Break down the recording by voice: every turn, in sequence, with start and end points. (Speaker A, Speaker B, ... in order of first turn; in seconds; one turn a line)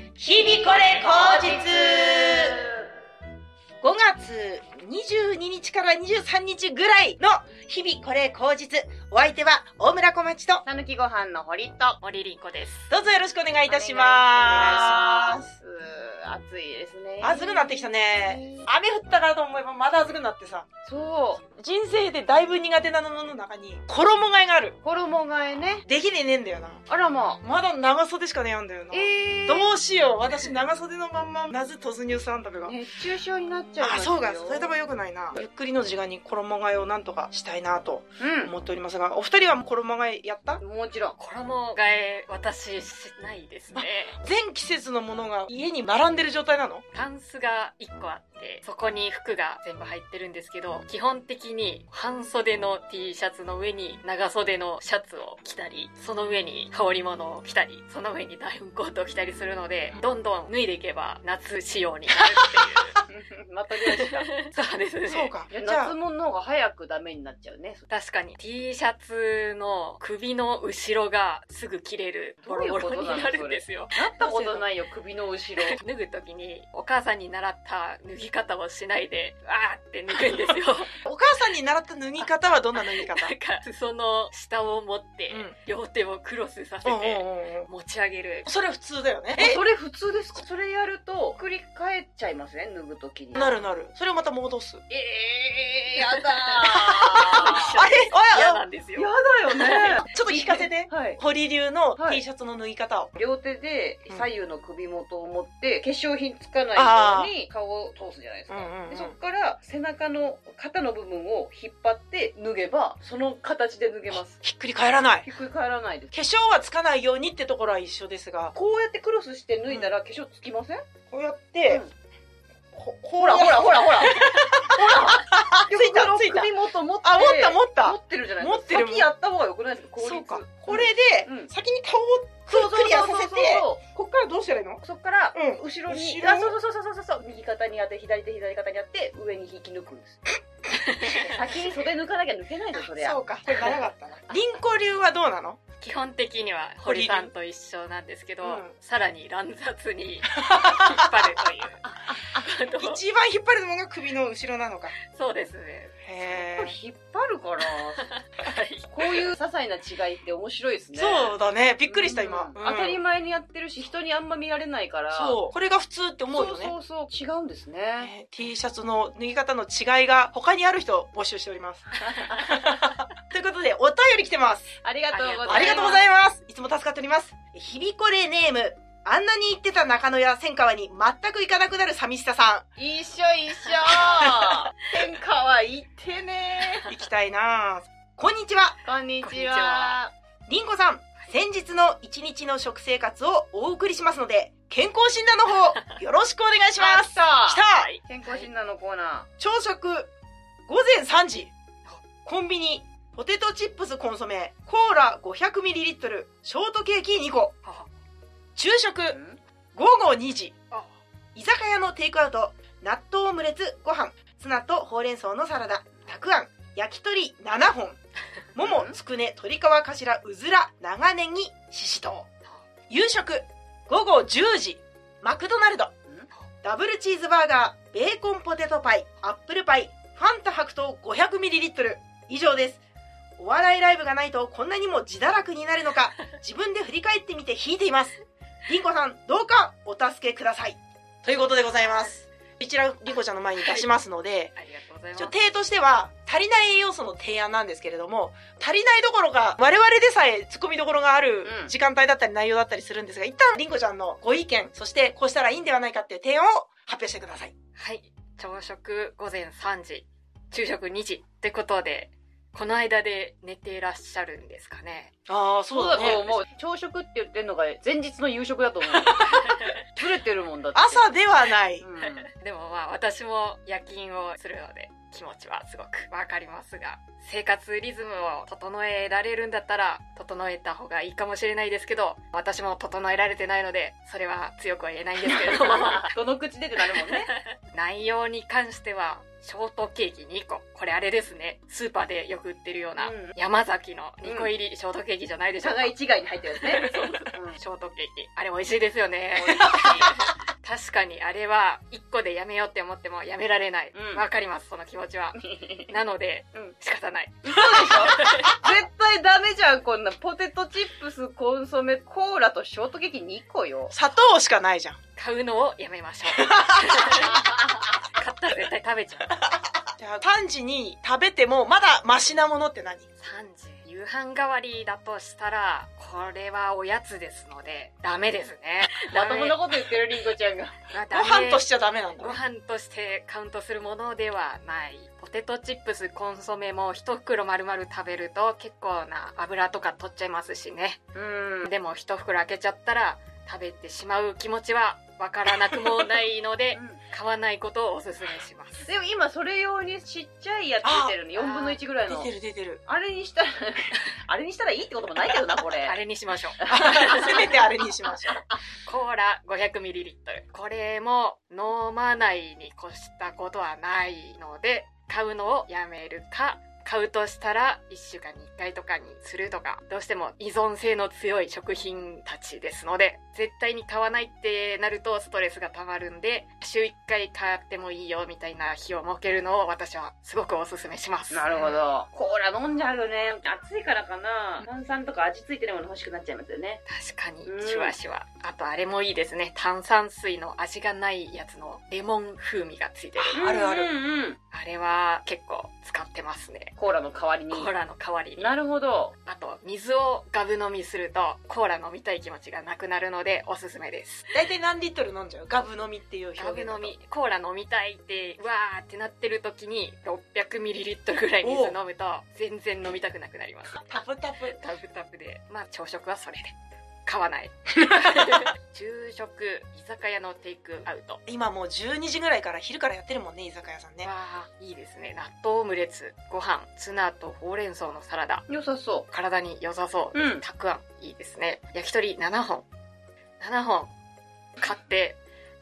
Speaker A: 0.2-2.6
Speaker B: 1.0-2.7
Speaker A: 3.8-10.6
Speaker B: 10.6-12.0
Speaker C: 12.0-12.9
Speaker A: 12.9-15.5
Speaker B: 13.7-18.6
Speaker A: 17.2-20.7
Speaker B: 20.8-21.4
Speaker A: 21.4-24.8
Speaker B: 24.8-25.9
Speaker A: 25.9-26.8
Speaker B: 26.9-27.4
Speaker A: 27.4-32.8
Speaker B: 28.9-29.7
Speaker B: 32.6-34.7
Speaker A: 33.8-40.6
Speaker B: 38.2-38.5
Speaker B: 40.6-41.2
Speaker C: 41.2-44.1
Speaker A: 43.8-46.8
Speaker C: 46.9-62.9
Speaker A: 62.2-62.9
Speaker B: 63.1-64.3
Speaker C: 63.9-65.3
Speaker A: 65.1-65.9
Speaker B: 65.5-67.8
Speaker C: 67.9-74.0
Speaker B: 72.4-75.8
Speaker A: 72.5-73.0
Speaker A: 74.2-74.6
Speaker C: 75.6-80.9
Speaker A: 81.0-83.3
Speaker C: 82.7-88.5
Speaker A: 85.3-85.5
Speaker A: 86.8-87.7
Speaker A: 88.4-89.6
Speaker B: 89.4-93.5
Speaker A: 93.3-94.8
Speaker B: 94.9-97.8
Speaker A: 96.7-98.6
Speaker C: 97.3-100.0
Speaker B: 99.0-101.2
Speaker A: 99.6-103.1
Speaker B: 102.0-102.2
Speaker B: 103.2-114.4
Speaker A: 106.8-107.3
Speaker A: 108.5-109.1
Speaker A: 114.4-115.3
Speaker B: 115.2-116.1
Speaker A: 116.1-118.5
Speaker B: 118.5-120.8
Speaker A: 121.1-121.8
Speaker A: 122.7-129.1
Speaker B: 123.2-131.5
Speaker A: 130.0-134.8
Speaker B: 132.5-133.8
Speaker B: 134.8-140.2
Speaker A: 135.3-136.5
Speaker C: 140.8-141.3
Speaker B: 141.0-143.8
Speaker A: 142.8-145.6
Speaker C: 145.8-153.0
Speaker A: 146.8-147.3
Speaker A: 148.4-148.7
Speaker A: 150.4-151.3
Speaker B: 151.8-152.5
Speaker A: 152.8-154.9
Speaker C: 155.0-156.0
Speaker A: 156.0-156.8
Speaker B: 156.5-158.1
Speaker C: 158.0-159.3
Speaker B: 158.9-161.3
Speaker A: 160.9-163.0
Speaker B: 161.8-165.4
Speaker A: 165.1-166.7
Speaker B: 166.3-168.1
Speaker A: 168.0-174.7
Speaker B: 172.0-172.5
Speaker B: 174.8-176.0
Speaker C: 175.1-176.0
Speaker A: 175.5-182.7
Speaker B: 182.8-186.9
Speaker A: 184.0-184.4
Speaker A: 186.9-188.8
Speaker B: 188.8-190.1
Speaker C: 189.2-190.0
Speaker A: 190.5-197.9
Speaker B: 196.8-199.3
Speaker C: 197.8-198.5
Speaker A: 199.4-200.1
Speaker A: 200.7-201.5
Speaker A: 202.2-207.6
Speaker A: 208.6-209.2
Speaker B: 209.1-209.4
Speaker A: 209.7-210.6
Speaker A: 211.3-218.0
Speaker A: 218.5-222.3
Speaker B: 218.6-218.9
Speaker A: 222.9-225.9
Speaker A: 226.6-232.8
Speaker A: 233.4-244.5
Speaker C: 241.3-242.2
Speaker C: 243.6-243.8
Speaker C: 244.6-245.3
Speaker A: 245.2-257.5
Speaker B: 251.4-251.7
Speaker C: 257.8-265.1
Speaker A: 265.3-266.3
Speaker B: 265.7-271.1
Speaker A: 270.7-271.8
Speaker B: 271.8-272.3
Speaker C: 272.3-286.1
Speaker B: 285.3-287.3
Speaker C: 286.9-295.9
Speaker B: 293.0-293.4
Speaker B: 294.2-294.5
Speaker B: 295.6-297.6
Speaker C: 296.6-308.6
Speaker B: 299.3-300.2
Speaker B: 303.9-304.2
Speaker B: 305.4-305.9
Speaker B: 307.4-313.9
Speaker A: 313.9-315.0
Speaker C: 315.1-319.5
Speaker A: 316.3-317.3
Speaker A: 320.0-323.1
Speaker C: 323.2-329.6
Speaker B: 329.1-330.8
Speaker C: 330.9-331.6
Speaker A: 331.1-332.4
Speaker C: 332.2-341.0
Speaker B: 341.1-341.7
Speaker C: 341.6-348.9
Speaker B: 346.7-347.0
Speaker B: 348.8-352.3
Speaker A: 350.8-351.1
Speaker C: 351.4-351.8
Speaker A: 352.1-352.8
Speaker B: 352.9-356.0
Speaker C: 355.8-357.4
Speaker B: 356.6-357.5
Speaker A: 356.7-358.4
Speaker C: 358.8-381.5
Speaker B: 381.3-386.8
Speaker A: 381.5-381.8
Speaker C: 386.9-393.4
Speaker B: 387.4-387.9
Speaker A: 393.2-393.9
Speaker B: 393.3-394.4
Speaker C: 394.5-396.7
Speaker B: 396.8-397.7
Speaker C: 397.5-398.5
Speaker B: 398.4-399.1
Speaker C: 399.2-404.3
Speaker A: 404.3-406.9
Speaker C: 406.4-414.0
Speaker A: 411.4-411.8
Speaker A: 413.8-414.6
Speaker C: 414.6-421.2
Speaker A: 417.9-418.4
Speaker A: 421.2-424.1
Speaker C: 424.0-428.4
Speaker B: 428.5-429.1
Speaker C: 429.1-432.6
Speaker B: 430.1-430.4
Speaker C: 433.4-433.9
Speaker C: 434.6-435.2